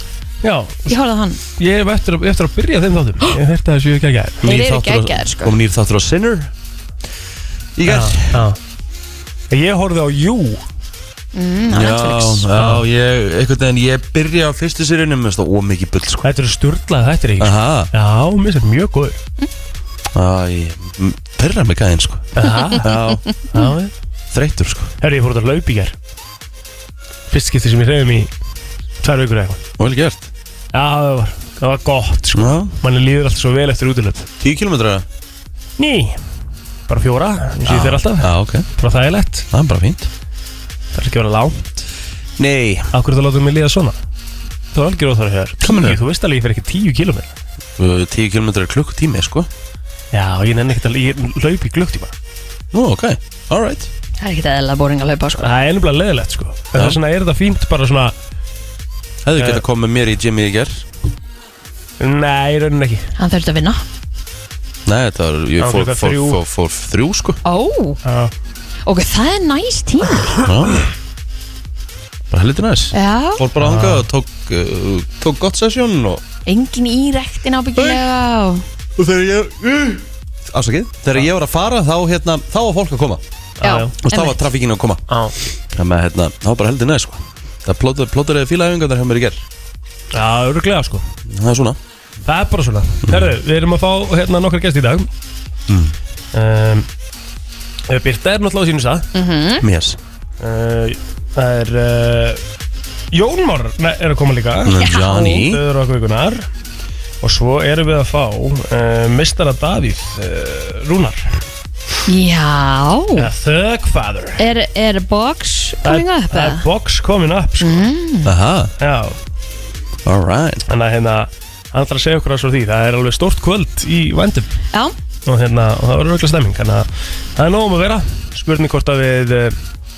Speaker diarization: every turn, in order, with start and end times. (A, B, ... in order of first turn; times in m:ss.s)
0:00.4-0:00.9 A
0:00.9-0:01.4 B
0:01.6-0:04.4 A
0:04.4-0:06.5 C
0:04.4-0:05.5 B
0:07.8-0:08.4 C
0:07.9-0:08.6 A
0:09.5-0:10.6 A
0:11.3-0:12.5 B
0:11.7-0:16.3 C
0:12.5-0:12.8 A
0:16.2-0:19.2 A
0:17.4-0:17.9 C
0:20.1-0:23.2 C
0:22.4-0:22.9 A
0:23.5-0:23.9 A
0:24.3-0:24.9 C
0:25.0-0:26.0 A
0:27.3-0:28.3 A
0:29.0-0:29.6 A
0:29.8-0:30.3 C
0:30.7-0:34.3 A
0:32.3-0:32.8 C
0:34.4-0:35.0 C
0:35.8-0:36.2 A
0:36.9-0:39.5 A
0:37.7-0:38.7 C
0:39.5-0:40.1 C
0:40.9-0:41.8 A
0:42.4-0:42.9 C
0:42.9-0:44.0 A
0:44.7-0:47.3 A
0:45.6-0:46.0 C
0:47.8-0:49.5 C
0:50.1-0:52.1 A
0:52.7-0:53.9 C
0:54.2-0:55.5 B
0:55.4-0:58.1 A
0:56.7-0:57.0 C
0:59.2-1:00.9 C
0:59.4-0:59.6 A
1:02.0-1:03.0 A
1:03.2-1:03.8 B
1:04.9-1:07.4 C
1:05.6-1:06.4 A
1:07.4-1:08.0 B
1:08.0-1:08.3 A
1:08.9-1:10.4 B
1:10.4-1:10.8 C
1:12.3-1:16.2 C
1:12.9-1:13.4 B
1:13.6-1:14.1 A
1:16.5-1:18.6 B
1:19.0-1:23.2 C
1:23.6-1:23.9 A
1:23.6-1:24.4 B
1:24.0-1:25.0 C
1:25.1-1:25.3 A
1:25.7-1:29.4 C
1:30.1-1:31.0 A
1:31.3-1:31.8 C
1:32.2-1:35.1 A
1:33.1-1:33.3 C
1:35.7-1:35.9 C
1:36.3-1:36.9 A
1:37.9-1:39.1 A
1:39.1-1:39.6 B
1:39.6-1:40.0 C
1:40.4-1:42.4 A
1:43.1-1:46.5 A
1:44.6-1:45.6 C
1:44.8-1:45.4 B
1:47.2-1:51.3 A
1:52.1-1:53.3 B
1:53.2-1:54.4 A
1:54.4-1:56.6 B
1:55.8-1:57.9 A
1:57.6-1:58.3 B
1:58.2-1:58.7 C
1:58.8-1:59.2 A
2:00.0-2:00.7 C
2:00.7-2:04.5 A
2:05.3-2:09.6 A